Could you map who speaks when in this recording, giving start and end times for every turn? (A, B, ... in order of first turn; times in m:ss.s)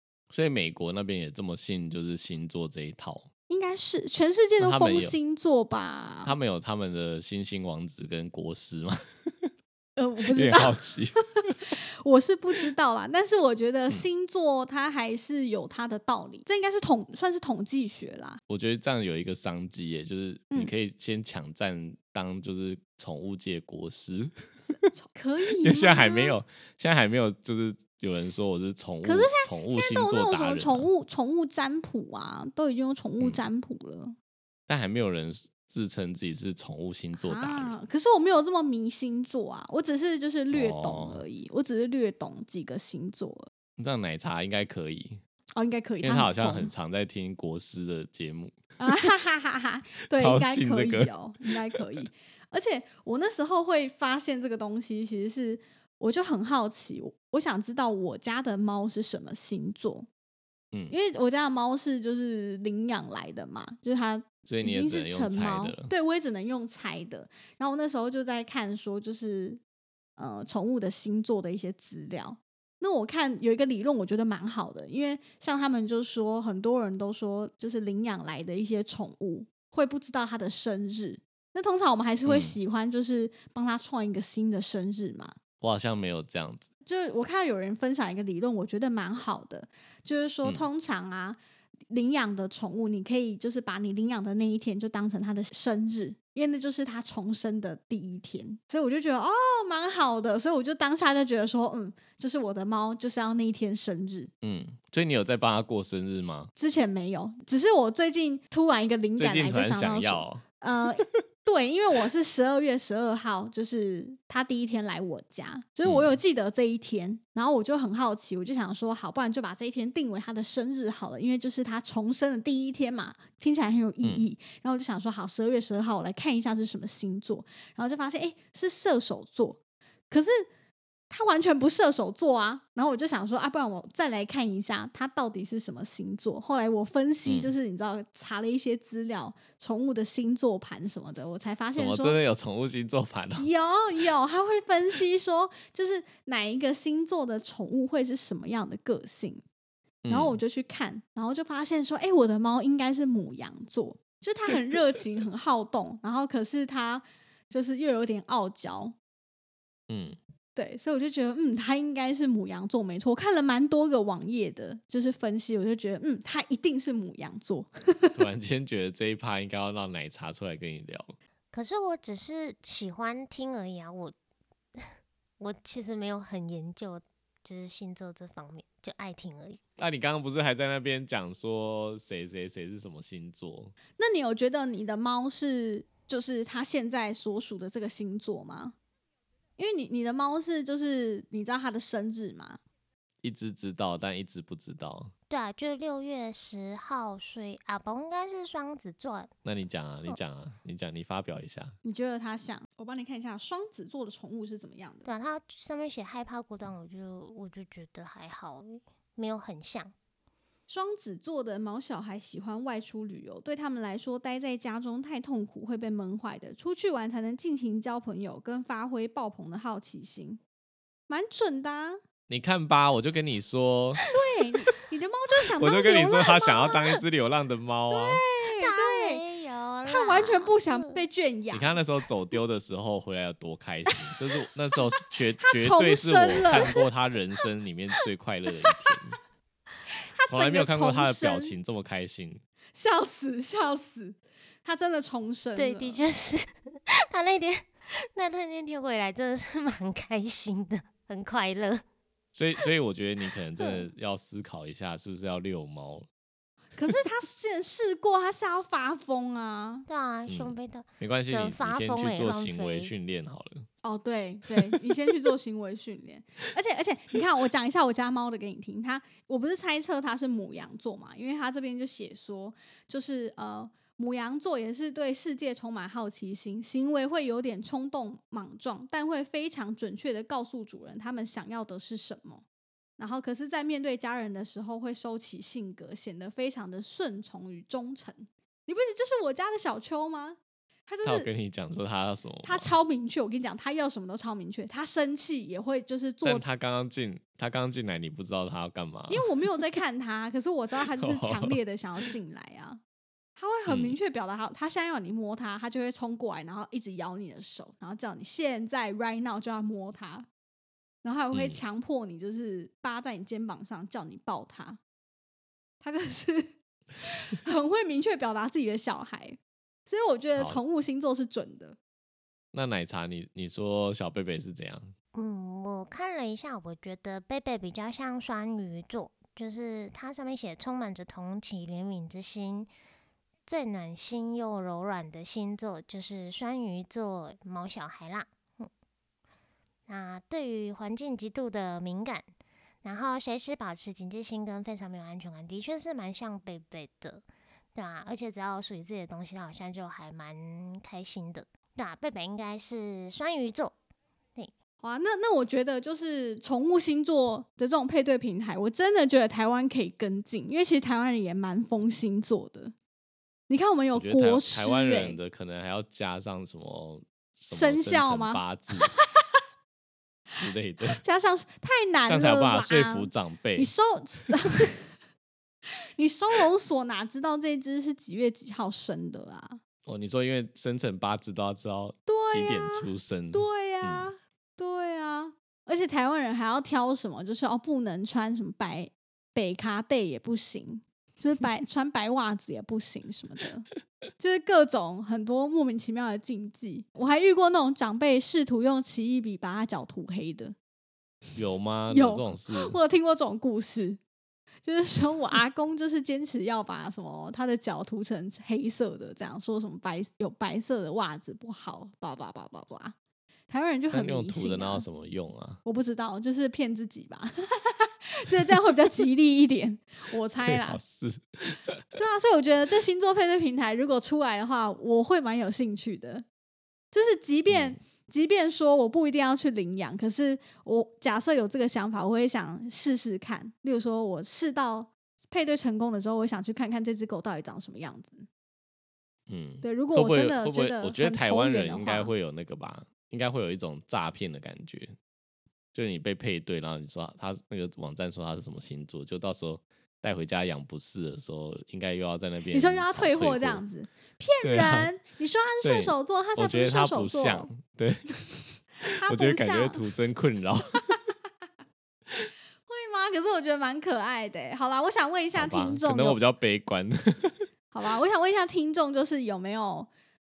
0:00.3-0:03.3 A
0:03.5-0:06.4 B
0:04.6-0:05.1 A
0:06.2-0:09.5 A
0:10.0-0:10.9 B
0:10.3-0:11.5 A
0:11.6-0:18.4 B
0:18.5-0:24.3 A
0:24.7-0:26.3 B
0:25.6-0:30.9 A
0:29.0-0:34.1 B
0:34.7-0:37.7 A
0:37.2-0:43.5 B
0:40.5-0:41.2 A
0:43.8-0:45.2 A
0:45.6-0:46.7 B
0:46.0-0:48.6 A
0:48.8-1:00.1 B
0:50.1-0:51.8 A
1:00.9-1:09.6 B
1:04.4-1:05.9 A
1:10.2-1:25.4 B
1:22.2-1:22.6 A
1:25.6-1:26.7 A
1:26.8-1:31.4 B
1:31.9-1:44.3 B
1:44.4-1:46.5 A
1:46.6-2:10.4 B
1:49.2-1:50.4 A
1:55.8-1:56.1 A
2:11.1-2:22.2 B
2:17.2-2:17.5 A
2:21.8-2:23.4 A
2:23.4-2:29.4 B
2:30.0-2:30.4 A
2:30.1-2:38.9 B
2:39.9-2:40.2 A
2:40.5-2:48.2 B
2:48.2-2:51.1 A
2:51.5-2:54.1 C
2:55.4-2:59.6 C
2:59.8-3:03.7 A
3:04.0-3:08.7 B
3:09.6-3:12.6 B
3:13.2-3:15.1 A
3:15.3-3:19.3 C
3:19.4-3:21.8 A
3:21.8-3:25.1 B
3:25.0-3:29.9 C
3:30.7-3:40.4 B
3:41.1-3:42.0 B
3:42.3-3:44.0 A
3:44.1-3:46.8 B
3:45.6-3:48.2 A
3:47.9-3:49.2 B
3:48.6-3:51.0 C
3:49.8-3:51.8 B
3:51.5-3:59.2 A
3:55.4-3:56.7 B
3:59.9-4:01.5 B
4:00.3-4:02.4 A
4:02.8-4:06.0 B
4:05.6-4:11.8 C
4:12.3-4:16.1 A
4:16.8-4:19.8 B
4:19.9-4:22.9 C
4:20.3-4:23.7 A
4:23.8-4:42.4 B
4:43.0-4:51.3 B
4:51.0-4:52.7 A
4:52.4-4:56.4 B
4:56.2-4:59.3 A
4:59.1-5:02.8 B
5:00.9-5:01.6 A
5:03.4-5:10.3 B
5:03.7-5:04.0 A
5:11.0-5:14.8 B
5:11.3-5:11.6 A
5:15.8-5:21.8 B
5:22.5-5:24.9 A
5:25.1-5:32.7 C
5:33.4-5:38.7 C
5:39.9-5:42.2 C
5:42.8-5:47.2 C
5:47.7-5:53.7 C
5:54.8-6:02.7 B
6:03.5-6:05.2 B
6:03.9-6:08.9 A
6:07.5-6:08.4 B
6:10.4-6:11.0 A
6:11.0-6:14.8 B
6:12.1-6:13.7 A
6:16.0-6:19.6 B
6:19.8-6:24.1 A
6:22.1-6:40.5 B
6:41.4-6:42.8 A
6:41.9-6:44.0 B
6:44.6-6:52.9 B
6:53.5-6:54.8 B
6:53.9-6:55.6 A
6:55.6-7:00.8 B
7:00.4-7:01.8 A
7:01.9-7:06.2 B
7:06.9-7:18.3 B
7:07.5-7:07.8 A
7:19.3-7:24.9 A
7:19.6-7:22.1 B
7:25.7-7:33.6 A
7:32.5-7:37.5 B
7:34.4-7:34.9 A
7:35.6-7:38.0 A
7:38.8-7:39.8 B
7:39.0-7:40.8 A
7:42.7-7:46.2 B
7:45.3-7:47.4 A
7:47.7-7:49.9 B